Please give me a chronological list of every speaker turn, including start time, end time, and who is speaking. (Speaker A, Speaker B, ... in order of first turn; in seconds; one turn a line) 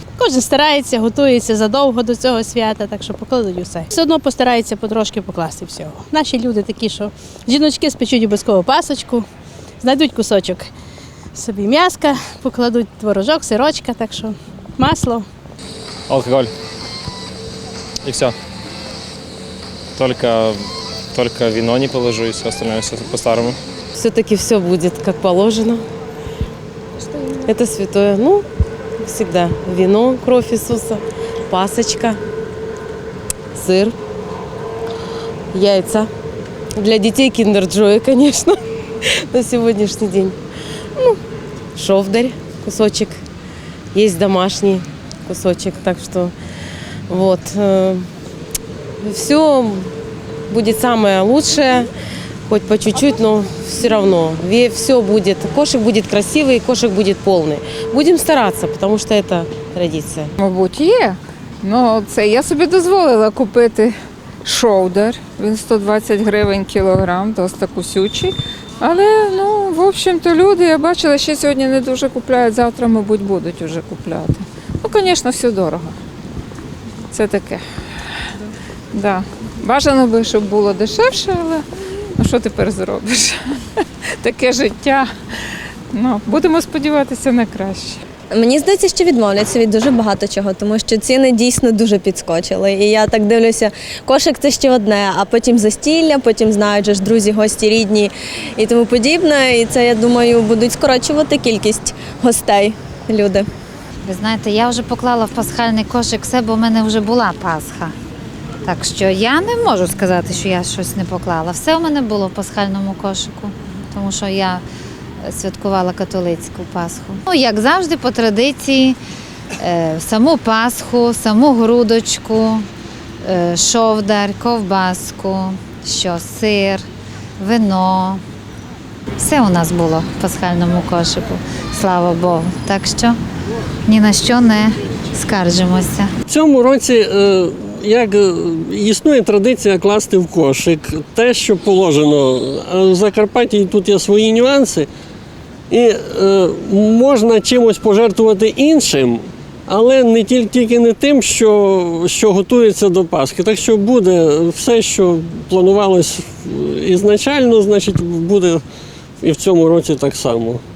Speaker A: 0.2-9.2
Speaker A: 9.8-10.7
Speaker A: 11.3-15.2
Speaker B: 16.1-16.4
Speaker B: 20.0-20.5
Speaker B: 21.1-23.5
Speaker C: 23.9-25.8
Speaker C: 27.4-28.4
Speaker C: 29.0-32.2
Speaker C: 33.5-33.9
Speaker C: 35.5-36.1
Speaker C: 36.8-38.6
Speaker C: 39.3-40.4
Speaker C: 41.8-43.2
Speaker C: 43.9-46.3
Speaker C: 47.1-48.1
Speaker C: 49.0-49.9
Speaker C: 50.5-51.9
Speaker C: 52.5-60.3
Speaker D: 60.4-75.9
Speaker D: 77.1-77.6
Speaker D: 78.9-81.6
Speaker D: 82.2-83.3
Speaker D: 84.2-85.1
Speaker D: 85.9-88.0
Speaker E: 88.3-103.5
Speaker F: 104.0-107.9
Speaker F: 108.6-114.6
Speaker F: 115.2-119.0
Speaker F: 119.6-122.6
Speaker F: 123.2-126.8
Speaker F: 127.4-128.2
Speaker F: 129.2-133.2
Speaker F: 133.9-136.1
Speaker G: 136.3-144.9
Speaker G: 145.7-158.6
Speaker G: 159.2-160.6